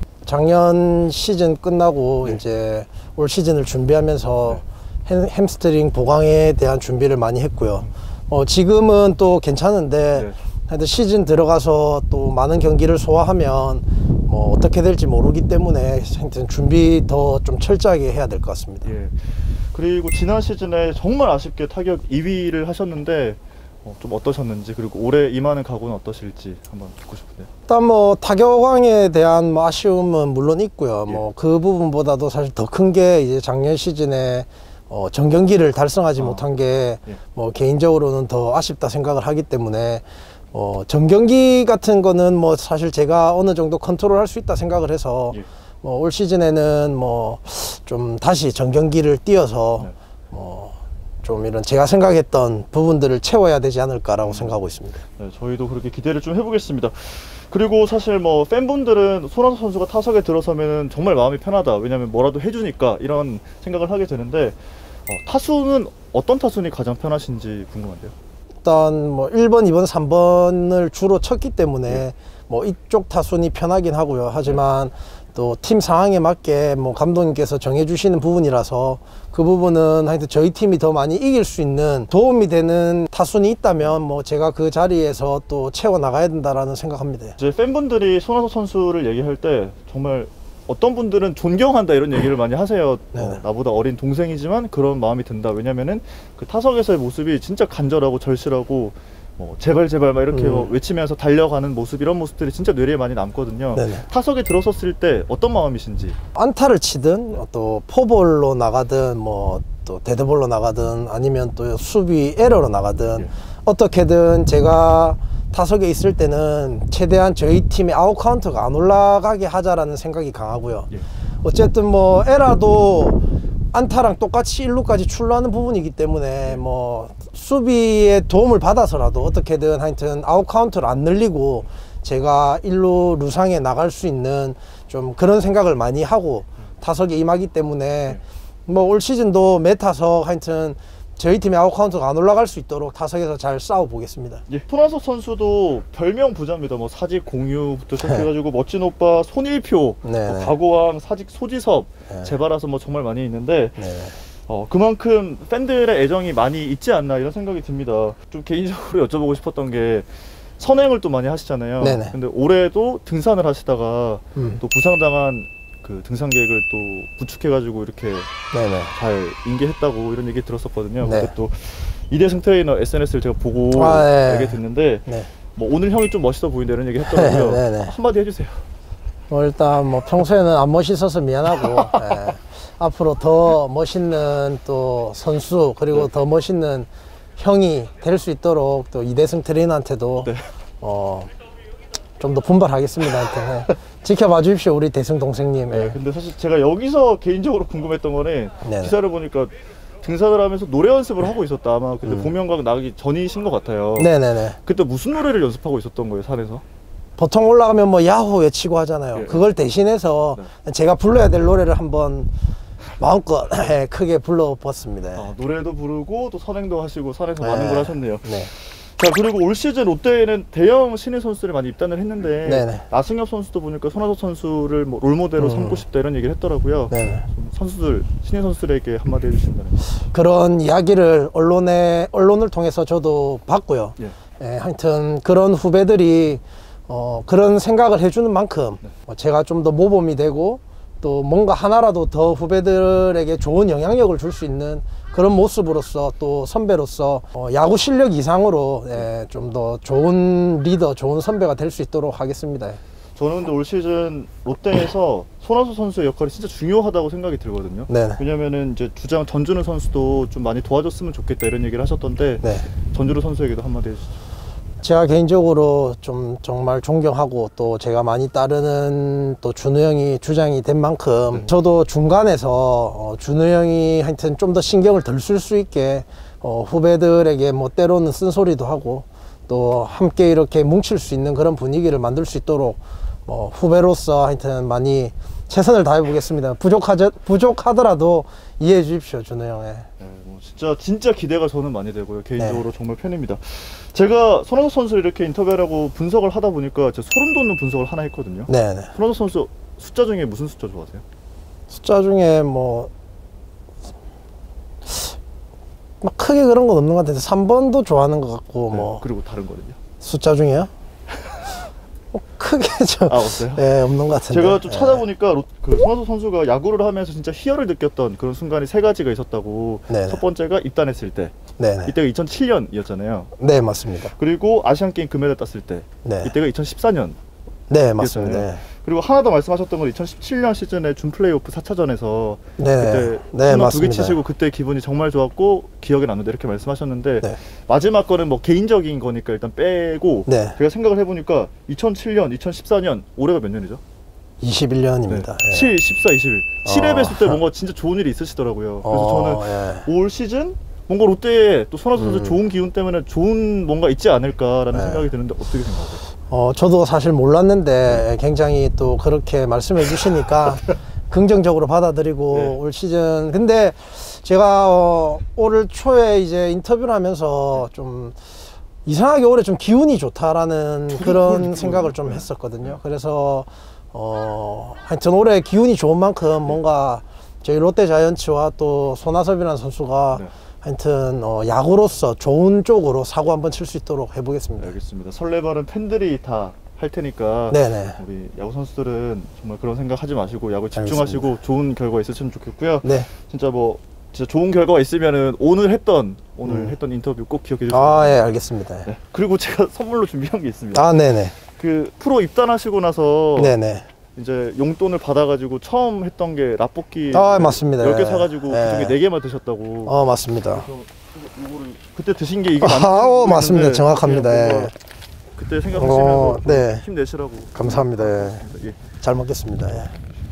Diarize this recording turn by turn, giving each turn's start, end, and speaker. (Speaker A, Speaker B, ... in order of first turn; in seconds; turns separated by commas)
Speaker A: 0.2-18.9, Speaker B: 18.8-27.5, Speaker A: 27.7-55.0, Speaker B: 36.2-36.4, Speaker B: 54.2-54.5, Speaker B: 55.2-68.1, Speaker A: 68.6-87.4, Speaker B: 87.4-106.2, Speaker A: 93.1-93.4, Speaker A: 100.3-100.7, Speaker A: 103.7-104.0, Speaker A: 106.3-120.9, Speaker A: 121.4-123.2, Speaker A: 123.7-144.4, Speaker B: 144.5-168.3, Speaker A: 150.0-150.5, Speaker A: 153.8-154.2, Speaker A: 161.8-162.1, Speaker A: 168.5-168.9, Speaker B: 168.9-178.6, Speaker A: 171.0-171.3, Speaker A: 173.7-175.3, Speaker A: 177.0-177.9, Speaker A: 179.3-191.3, Speaker A: 192.2-196.0, Speaker B: 195.7-206.6, Speaker A: 198.6-198.9, Speaker A: 202.1-202.3, Speaker A: 204.0-204.6, Speaker A: 207.2-212.3, Speaker B: 209.1-209.4, Speaker A: 213.0-215.3, Speaker B: 215.2-230.0, Speaker A: 217.4-218.5, Speaker A: 222.4-222.8, Speaker A: 225.4-225.8, Speaker A: 226.9-227.2, Speaker A: 230.1-252.8, Speaker B: 253.2-264.2, Speaker A: 257.9-258.2, Speaker A: 262.4-262.7, Speaker A: 264.8-289.9, Speaker B: 290.0-301.0, Speaker A: 298.5-298.9, Speaker A: 301.7-302.9, Speaker A: 304.9-305.1, Speaker A: 306.0-309.0, Speaker B: 308.7-309.8, Speaker A: 310.0-310.7, Speaker A: 312.1-315.0, Speaker B: 313.1-323.3, Speaker A: 319.9-320.2, Speaker A: 321.6-321.9, Speaker A: 323.4-324.1, Speaker B: 324.1-327.2, Speaker A: 326.0-326.3, Speaker A: 327.7-328.6, Speaker B: 328.0-343.8, Speaker A: 332.6-334.2, Speaker A: 340.3-340.6, Speaker A: 344.4-345.7, Speaker B: 345.1-356.1, Speaker A: 346.6-347.4, Speaker A: 348.8-349.9, Speaker A: 351.9-352.4, Speaker A: 354.7-355.1, Speaker A: 356.3-368.2, Speaker B: 362.3-362.6, Speaker A: 368.8-384.7, Speaker B: 370.9-372.8, Speaker B: 384.6-398.3, Speaker A: 387.5-388.0, Speaker A: 390.8-391.3, Speaker A: 392.8-393.1, Speaker A: 396.4-396.8, Speaker A: 397.7-398.9, Speaker B: 398.8-400.9, Speaker A: 400.7-401.4, Speaker B: 401.4-403.5, Speaker A: 403.4-403.9, Speaker B: 404.1-414.7, Speaker A: 407.1-409.0, Speaker A: 409.9-410.7, Speaker A: 412.6-414.7, Speaker B: 415.3-418.8, Speaker A: 415.7-416.9, Speaker A: 417.5-418.4, Speaker A: 419.0-419.9